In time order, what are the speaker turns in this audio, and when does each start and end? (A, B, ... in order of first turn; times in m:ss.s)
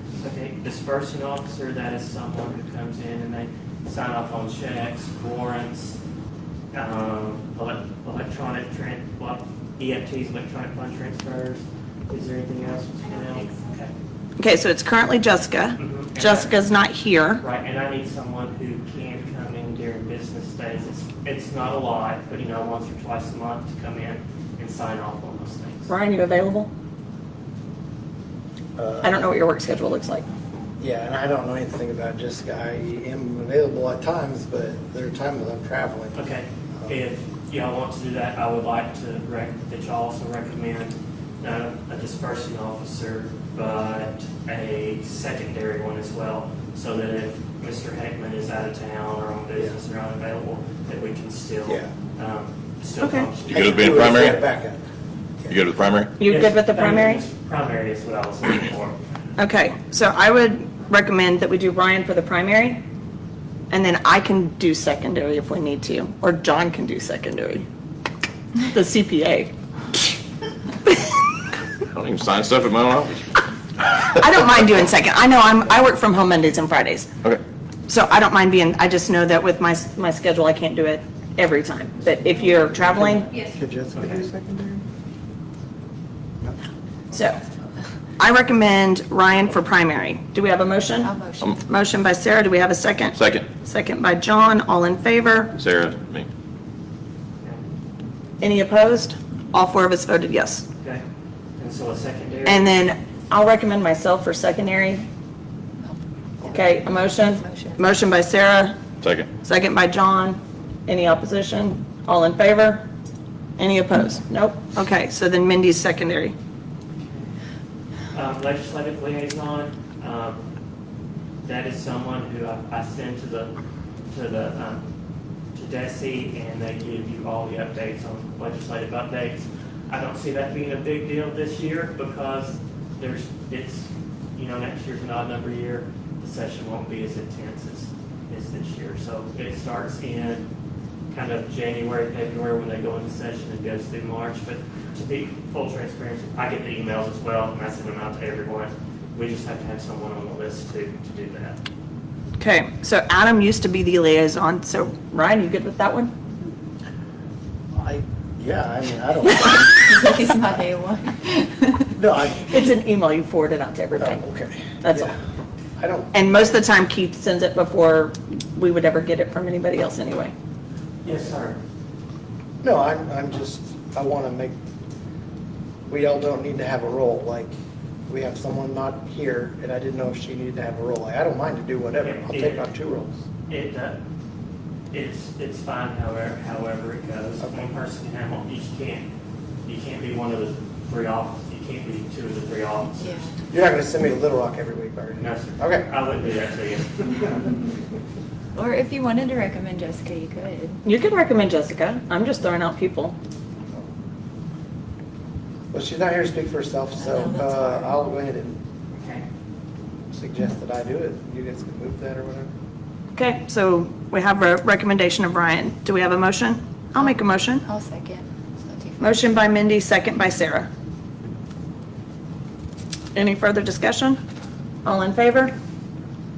0:00.2-0:06.0 A
0:06.7-0:13.9 A
0:14.4-0:17.4 B
0:15.8-0:16.6 A
0:17.4-0:25.9 A
0:25.9-0:26.7 B
0:28.8-0:29.3 C
0:29.0-0:30.2 B
0:30.8-0:36.2 C
0:36.1-0:54.0 A
0:53.0-0:53.3 B
0:53.5-0:54.4 D
0:53.5-0:54.8 C
0:55.5-0:56.1 D
0:56.2-0:57.2 B
0:56.2-0:59.0 A
0:59.4-1:02.8 B
1:03.7-1:07.6 B
1:08.6-1:09.5 B
1:11.8-1:13.4 D
1:14.0-1:17.1 B
1:17.9-1:23.3 B
1:22.7-1:24.8 C
1:23.9-1:24.2 A
1:27.1-1:27.4 B
1:28.2-1:35.5 B
1:31.0-1:31.6 E
1:33.1-1:33.5 D
1:35.6-1:36.3 D
1:38.4-1:40.6 B
1:41.6-1:42.8 A
1:42.4-1:45.1 B
1:45.8-1:47.8 E
1:46.4-1:48.7 B
1:49.0-1:49.3 D
1:49.4-1:52.8 B
1:53.6-1:56.3 B
1:57.0-1:57.3 A
1:58.1-2:00.4 A
2:01.4-2:03.5 A
2:04.1-2:04.9 A
2:05.5-2:20.4 A
2:21.1-2:31.6 A
2:32.4-2:36.1 B
2:37.7-2:40.3 C
2:39.5-2:41.9 E
2:41.9-2:42.5 C
2:42.5-2:44.2 B
2:44.0-2:45.2 C
2:44.8-2:45.1 B
2:45.8-2:46.1 C
2:46.1-2:50.3 B
2:51.0-2:51.6 A
2:52.6-2:54.5 C
2:55.9-2:57.5 C
2:58.1-3:03.2 C
3:02.0-3:02.7 A
3:03.5-3:04.0 A
3:04.9-3:09.1 A
3:07.4-3:07.7 C
3:09.6-3:13.2 A
3:13.0-3:13.3 E
3:13.5-3:15.9 C
3:15.2-3:17.5 A
3:18.5-3:20.8 E
3:20.8-3:23.2 B
3:25.7-3:28.6 C
3:27.0-3:28.0 E
3:30.1-3:32.5 C
3:33.1-3:37.6 B
3:37.6-3:39.3 E
3:39.0-3:40.7 B
3:43.1-3:44.2 B
3:44.8-3:45.5 B